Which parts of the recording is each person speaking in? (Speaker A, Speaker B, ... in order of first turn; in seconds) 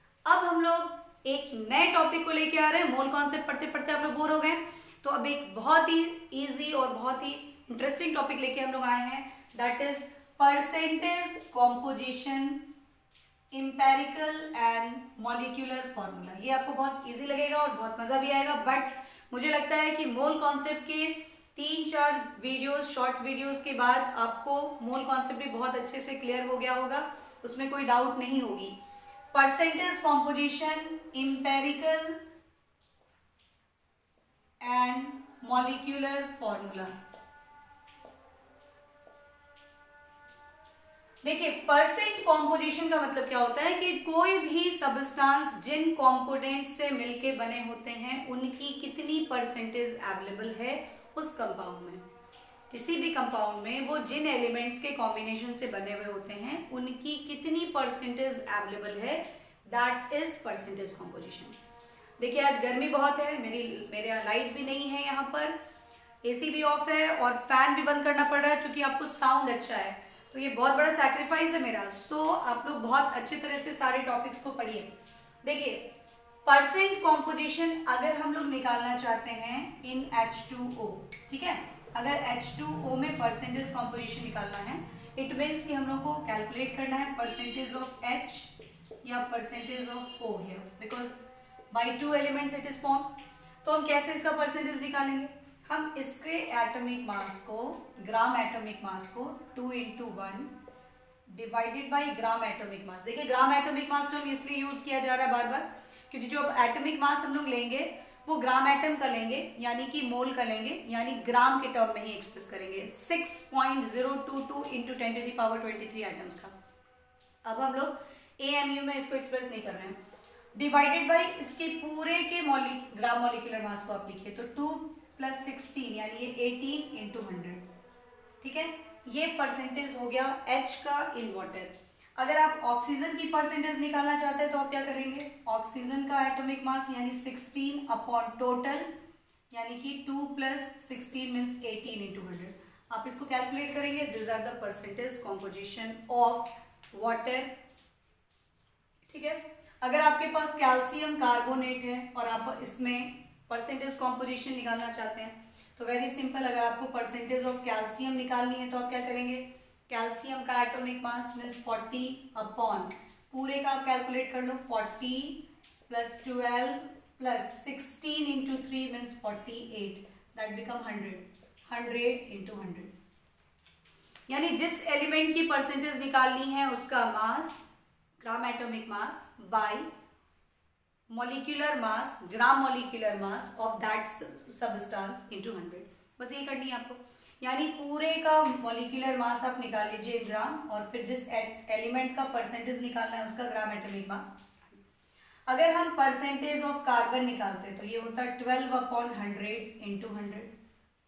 Speaker A: 0.2-12.6, 13.5-28.8, 29.3-32.2, 34.6-36.9, 41.2-52.0, 52.7-61.5, 62.2-65.5, 66.2-74.9, 75.4-75.9, 76.4-88.5, 89.0-91.1, 91.7-93.1, 93.6-100.5, 101.3-116.5, 117.4-120.0, 120.5-127.6, 128.4-138.9, 139.5-147.5, 149.1-172.9, 174.3-177.7, 178.2-179.9, 181.1-194.8, 195.5-200.5